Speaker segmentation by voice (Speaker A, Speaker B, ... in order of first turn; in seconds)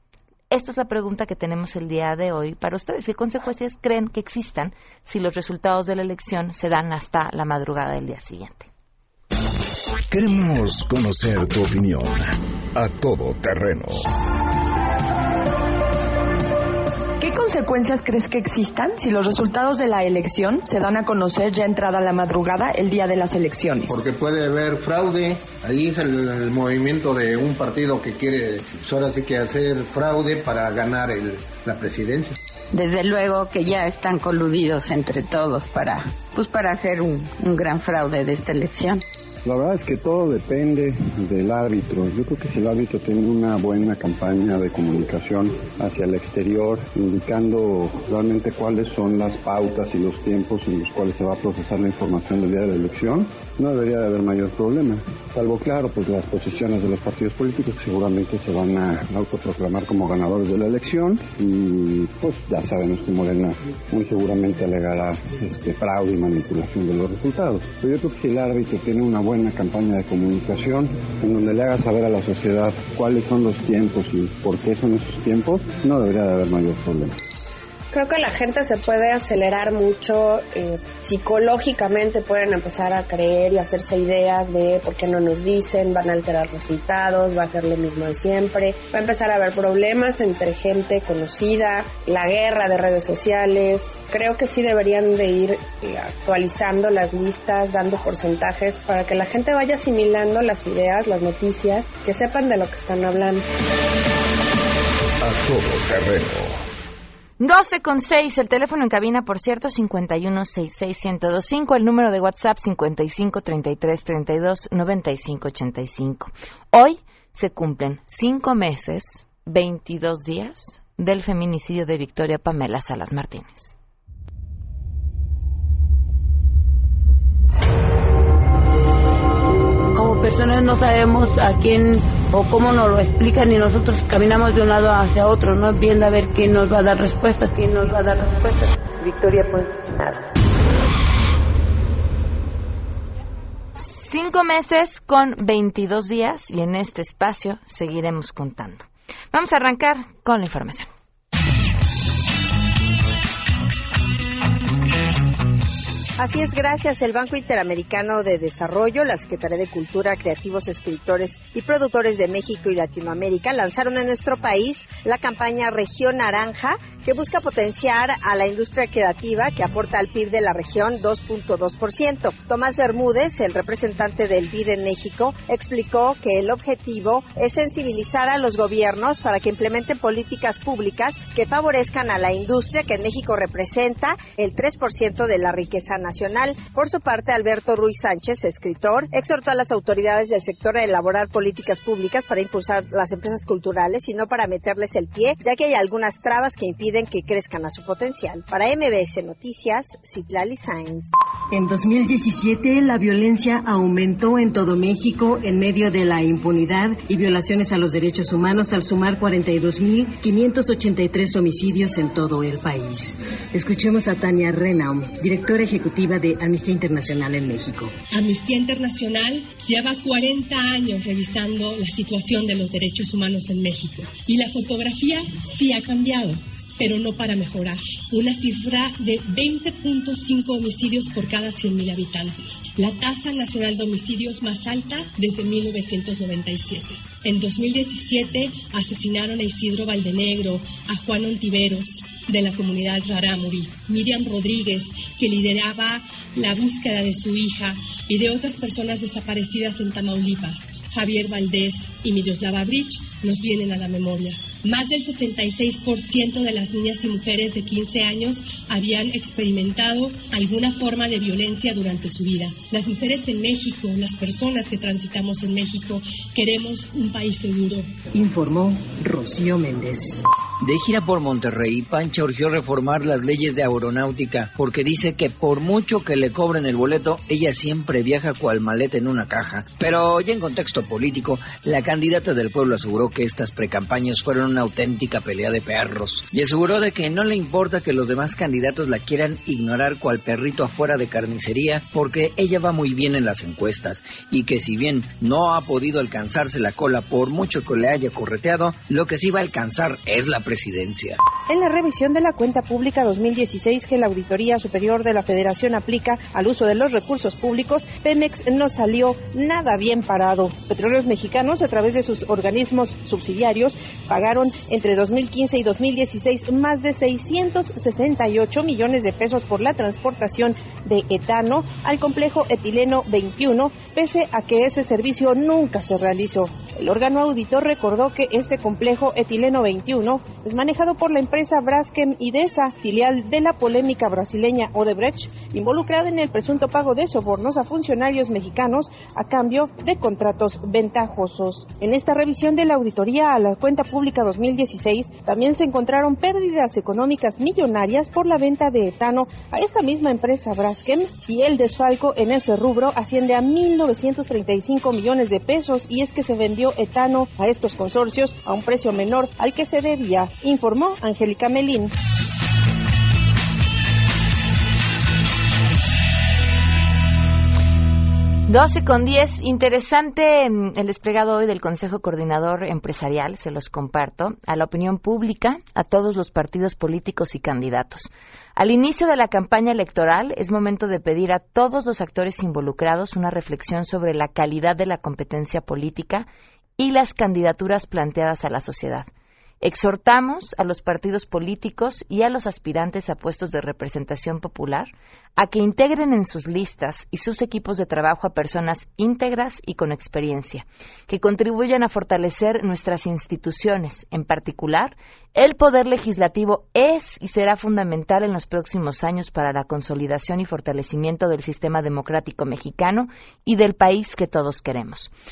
Speaker A: 0.5-8.7, 107.4-123.8, 143.7-150.9, 368.5-386.3, 386.8-389.1, 389.6-415.1
Speaker B: 10.1-14.1, 105.2-106.6
Speaker C: 17.2-24.0
Speaker D: 23.9-32.4
Speaker E: 39.4-77.2
Speaker F: 77.9-103.4
Speaker G: 129.9-140.2
Speaker H: 156.2-201.1
Speaker I: 201.5-217.9, 268.1-270.2
Speaker J: 218.1-267.8
Speaker K: 270.6-301.2
Speaker L: 301.5-361.9